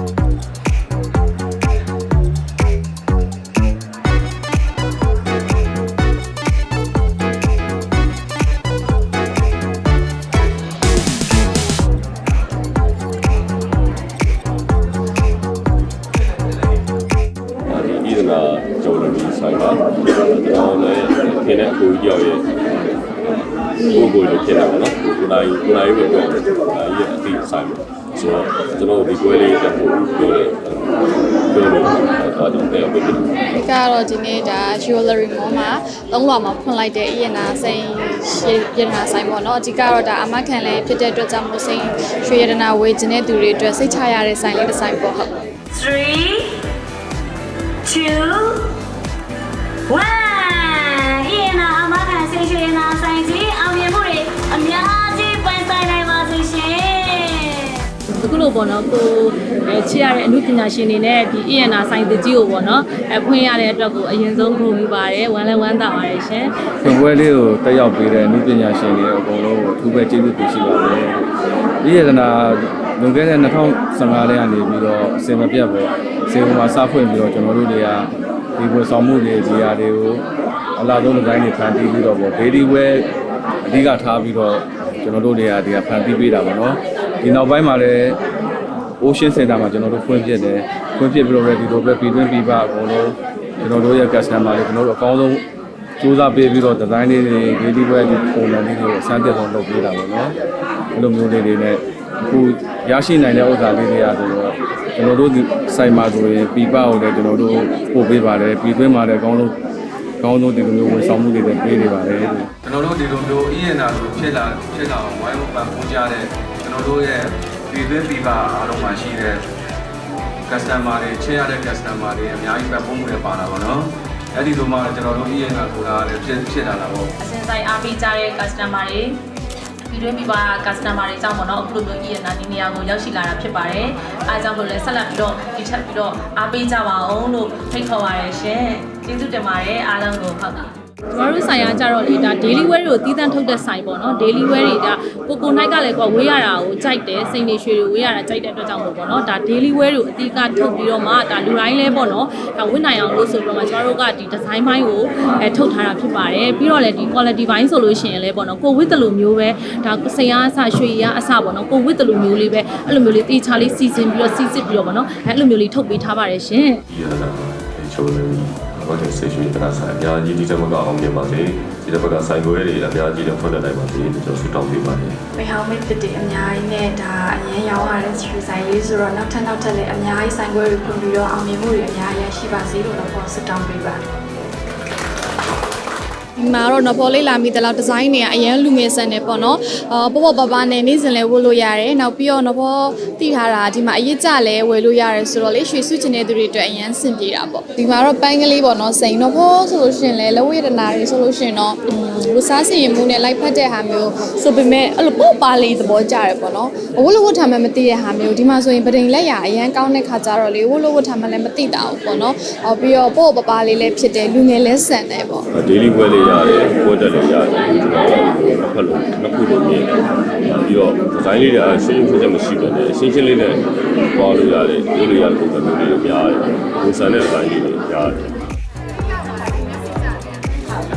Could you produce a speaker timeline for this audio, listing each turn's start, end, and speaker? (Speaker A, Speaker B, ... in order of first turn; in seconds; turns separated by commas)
Speaker A: 17.7-22.4, Speaker A: 23.8-30.9, Speaker A: 31.5-33.3, Speaker B: 33.5-45.3, Speaker C: 45.7-46.5, Speaker C: 47.9-48.7, Speaker C: 49.9-57.8, Speaker D: 58.1-66.5, Speaker E: 66.8-71.3, Speaker E: 71.8-80.2, Speaker E: 80.8-83.1, Speaker E: 83.6-88.2, Speaker E: 89.0-95.4, Speaker E: 96.0-100.3, Speaker E: 100.9-109.5, Speaker E: 110.2-119.4, Speaker E: 120.5-127.1, Speaker D: 127.2-129.2, Speaker D: 129.8-166.8, Speaker A: 166.9-175.2, Speaker B: 175.6-180.8, Speaker F: 178.4-182.0, Speaker B: 181.3-183.6, Speaker F: 183.4-184.0, Speaker B: 186.4-215.4, Speaker A: 215.5-219.9, Speaker A: 220.5-228.3